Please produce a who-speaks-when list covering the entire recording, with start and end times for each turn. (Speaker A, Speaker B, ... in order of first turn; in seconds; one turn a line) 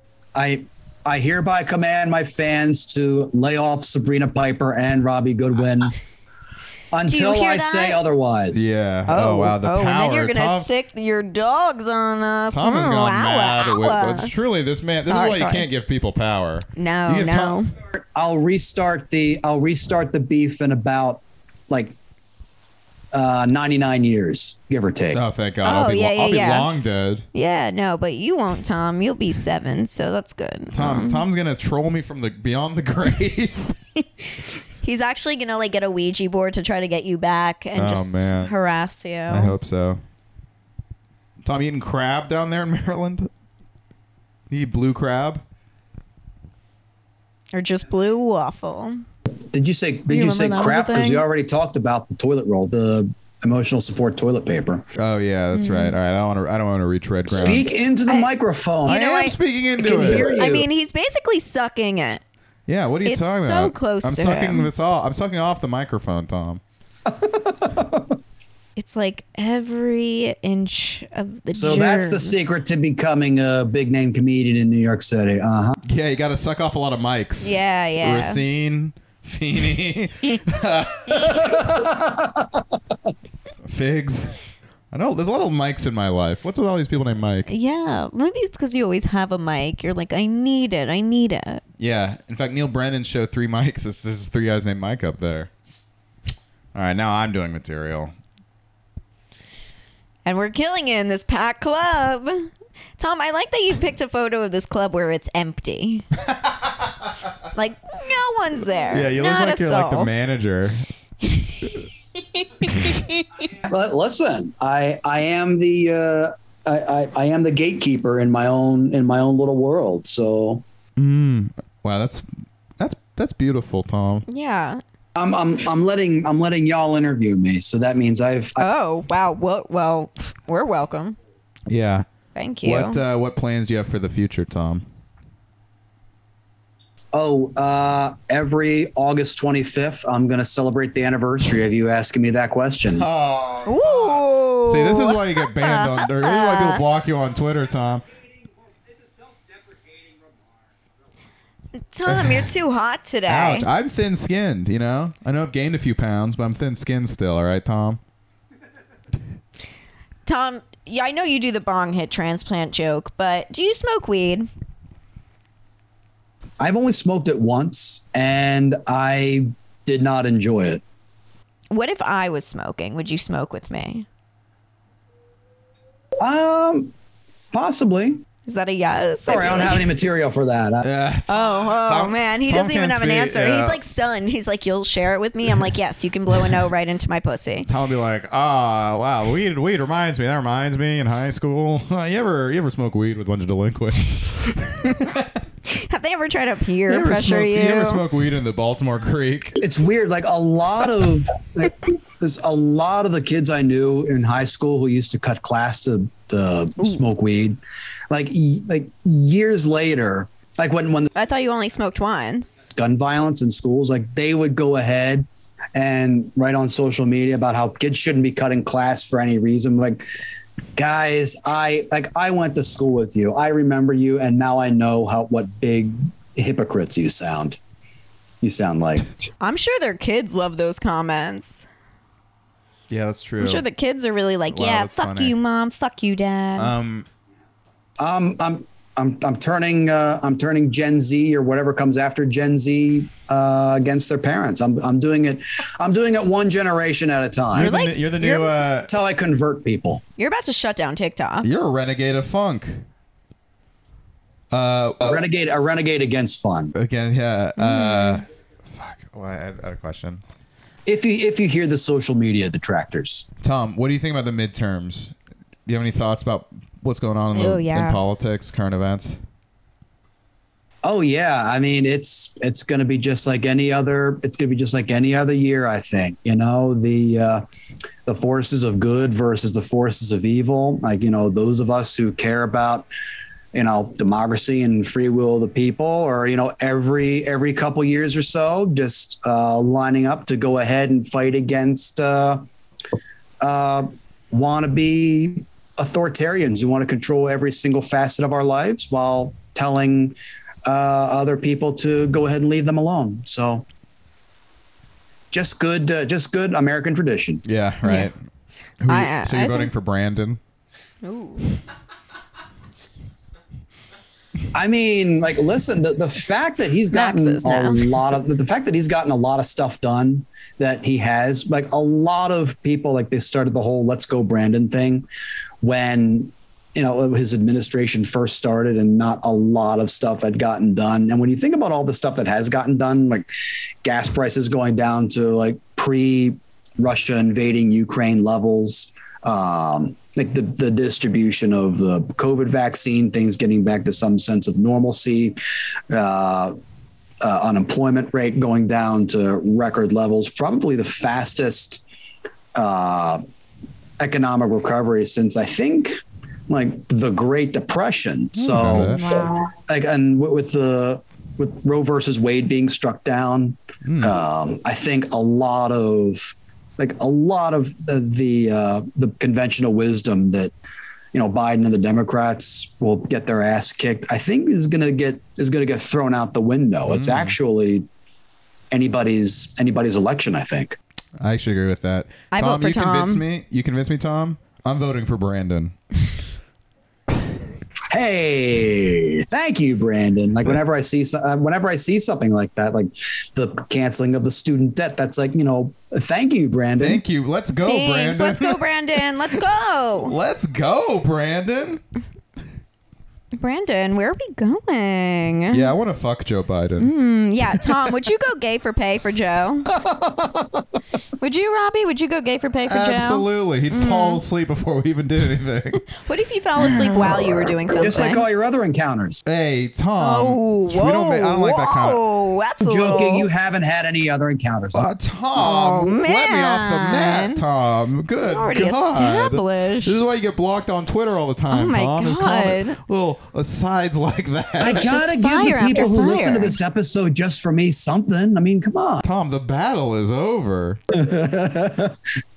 Speaker A: 0.3-6.0
Speaker A: 6.9-8.6
Speaker B: 7.1-8.0
Speaker C: 8.5-10.7
Speaker B: 9.1-14.3
Speaker C: 12.5-17.6
Speaker B: 15.1-15.7
Speaker B: 16.8-17.8
Speaker A: 17.9-22.0
Speaker A: 23.1-25.2
Speaker C: 25.1-27.3
Speaker B: 25.6-26.7
Speaker B: 27.3-31.2
Speaker C: 30.7-33.8
Speaker B: 34.8-39.5
Speaker C: 37.8-38.5
Speaker C: 39.3-40.0
Speaker C: 41.4-43.3
Speaker C: 44.5-45.4
Speaker B: 47.5-49.0
Speaker A: 49.5-54.9
Speaker B: 50.1-51.2
Speaker C: 55.0-57.7
Speaker B: 55.5-56.0
Speaker A: 57.3-59.0
Speaker C: 58.9-60.5
Speaker B: 58.9-62.2
Speaker A: 59.8-60.7
Speaker C: 62.7-66.6
Speaker B: 63.0-64.7
Speaker A: 67.1-68.2
Speaker B: 68.8-72.5
Speaker A: 71.5-75.8
Speaker C: 75.8-81.7
Speaker B: 77.4-78.4
Speaker A: 81.4-82.5
Speaker C: 83.7-84.4
Speaker C: 84.9-87.5
Speaker B: 87.5-91.6
Speaker C: 91.8-95.5
Speaker C: 96.7-98.1
Speaker B: 100.2-106.1
Speaker B: 107.5-110.1
Speaker C: 108.9-110.9
Speaker B: 111.3-111.8
Speaker B: 112.3-113.5
Speaker A: 113.6-120.6
Speaker C: 121.0-122.3
Speaker C: 122.8-124.3
Speaker B: 124.3-124.8
Speaker A: 125.2-128.6
Speaker B: 128.6-131.2
Speaker C: 131.7-132.1
Speaker B: 132.3-133.0
Speaker C: 132.6-134.9
Speaker A: 137.1-143.1
Speaker C: 142.9-148.0
Speaker B: 143.7-146.8
Speaker B: 151.8-153.7
Speaker C: 152.1-152.5
Speaker C: 153.3-158.0
Speaker B: 160.3-164.5
Speaker A: 166.6-170.8
Speaker B: 171.7-174.1
Speaker A: 176.2-176.9
Speaker A: 177.5-178.2
Speaker B: 178.4-179.9
Speaker A: 179.3-180.9
Speaker C: 180.8-183.8
Speaker B: 181.3-187.7
Speaker C: 187.7-195.4
Speaker B: 195.7-198.0
Speaker C: 196.9-199.6
Speaker A: 199.6-207.6
Speaker A: 208.1-211.1
Speaker B: 211.2-212.7
Speaker A: 212.7-220.1
Speaker A: 220.8-227.6
Speaker A: 228.4-229.1
Speaker B: 229.4-231.7
Speaker C: 232.9-233.7
Speaker B: 233.4-236.7
Speaker C: 234.5-235.4
Speaker C: 236.6-237.1
Speaker A: 238.0-247.7
Speaker C: 247.5-248.9
Speaker B: 247.6-248.6
Speaker A: 248.9-250.0
Speaker B: 250.2-251.5
Speaker C: 251.4-252.8
Speaker C: 254.5-255.1
Speaker A: 255.0-256.7
Speaker C: 256.8-260.2
Speaker B: 257.6-258.2
Speaker A: 260.9-263.3
Speaker C: 263.4-265.1
Speaker C: 265.7-269.2
Speaker B: 267.3-268.0
Speaker A: 270.8-277.4
Speaker A: 278.1-282.9
Speaker A: 283.5-292.4
Speaker A: 293.4-303.6
Speaker A: 305.3-307.4
Speaker C: 307.4-308.2
Speaker B: 307.8-308.1
Speaker C: 308.8-310.4
Speaker B: 308.9-309.7
Speaker B: 311.0-311.5
Speaker A: 314.5-325.1
Speaker B: 316.9-317.9
Speaker A: 325.6-333.3
Speaker A: 333.8-345.4
Speaker A: 345.9-346.6
Speaker A: 347.2-351.8
Speaker A: 352.6-353.2
Speaker A: 354.0-370.5
Speaker C: 358.4-359.1
Speaker B: 358.9-359.5
Speaker C: 363.8-364.2
Speaker A: 371.1-377.9
Speaker C: 376.9-377.4
Speaker A: 378.7-380.8
Speaker C: 381.2-385.8
Speaker B: 382.3-383.2
Speaker A: 387.9-397.0
Speaker C: 396.8-398.7
Speaker B: 397.6-400.1
Speaker C: 400.0-401.8
Speaker B: 403.3-405.7
Speaker C: 405.5-406.9
Speaker B: 406.8-409.7
Speaker A: 409.7-410.6
Speaker B: 411.2-414.2
Speaker C: 412.7-415.8
Speaker B: 415.9-418.2
Speaker A: 417.7-419.2
Speaker C: 419.2-422.0
Speaker B: 420.0-423.3
Speaker A: 422.6-424.9
Speaker C: 424.7-435.0
Speaker B: 425.4-427.4
Speaker B: 428.2-430.0
Speaker B: 431.5-432.8
Speaker A: 434.6-439.0
Speaker B: 434.6-436.6
Speaker C: 439.0-440.8
Speaker A: 440.9-442.0